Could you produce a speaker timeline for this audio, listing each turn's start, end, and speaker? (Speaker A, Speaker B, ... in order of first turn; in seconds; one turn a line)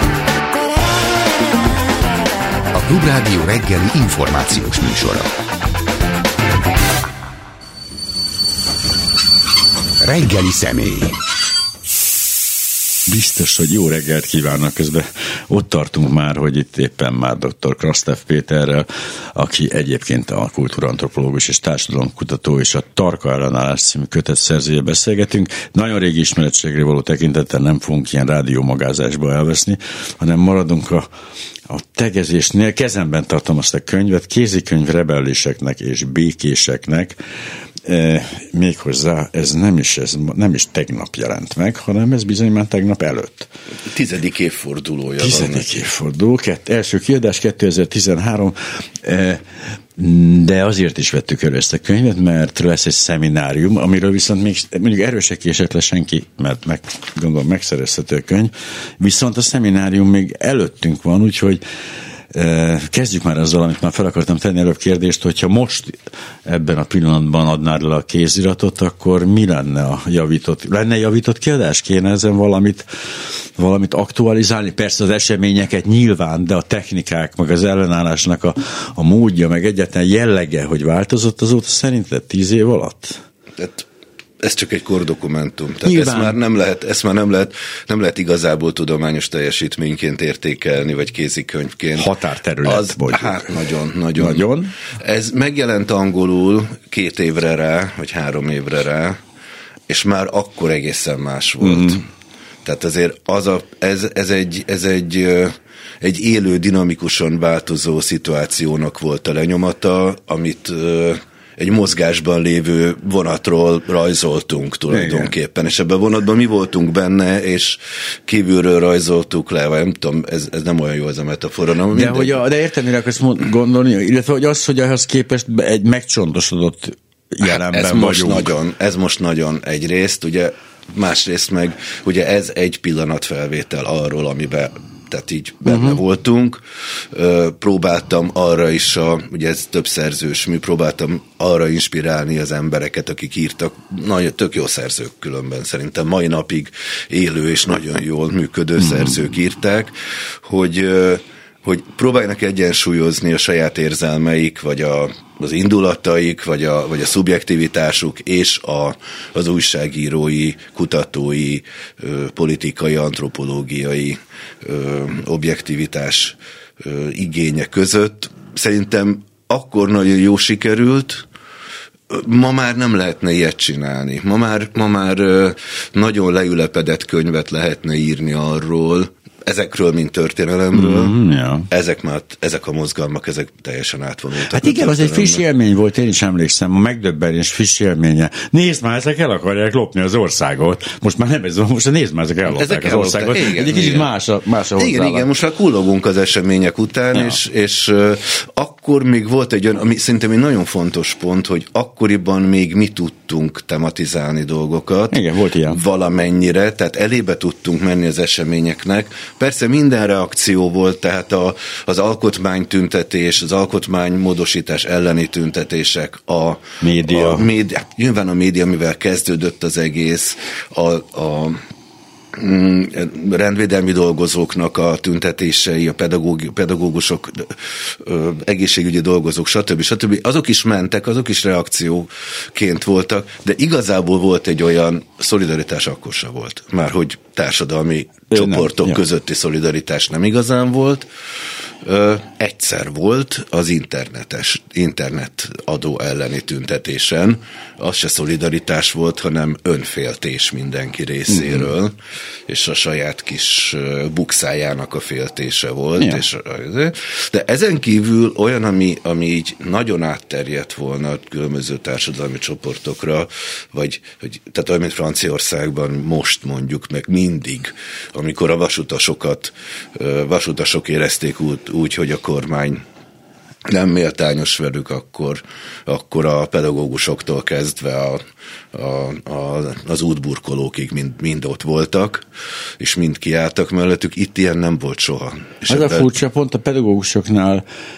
Speaker A: 2.7-5.3
Speaker A: 10.0-11.2
Speaker B: 13.1-31.1
Speaker B: 31.7-37.2
Speaker B: 37.9-43.5
Speaker C: 43.9-45.7
Speaker B: 45.2-49.4
Speaker B: 50.0-61.6
Speaker B: 62.3-72.9
Speaker B: 73.6-83.2
Speaker C: 83.6-83.9
Speaker C: 84.4-92.1
Speaker B: 85.8-86.4
Speaker B: 92.0-93.5
Speaker C: 92.6-99.2
Speaker B: 94.2-94.7
Speaker C: 99.9-102.1
Speaker B: 101.6-102.0
Speaker C: 102.6-122.4
Speaker B: 114.9-115.3
Speaker B: 121.9-128.5
Speaker C: 127.4-171.3
Speaker B: 135.7-136.0
Speaker C: 172.1-181.2
Speaker B: 180.7-181.7
Speaker C: 181.7-185.4
Speaker B: 184.5-195.3
Speaker C: 192.5-194.1
Speaker C: 194.8-221.6
Speaker B: 205.1-205.8
Speaker B: 216.8-217.5
Speaker C: 222.3-241.1
Speaker B: 238.3-239.0
Speaker C: 241.8-252.0
Speaker B: 251.3-251.7
Speaker C: 252.5-272.8
Speaker C: 273.7-282.2
Speaker C: 282.8-286.1
Speaker B: 285.7-287.6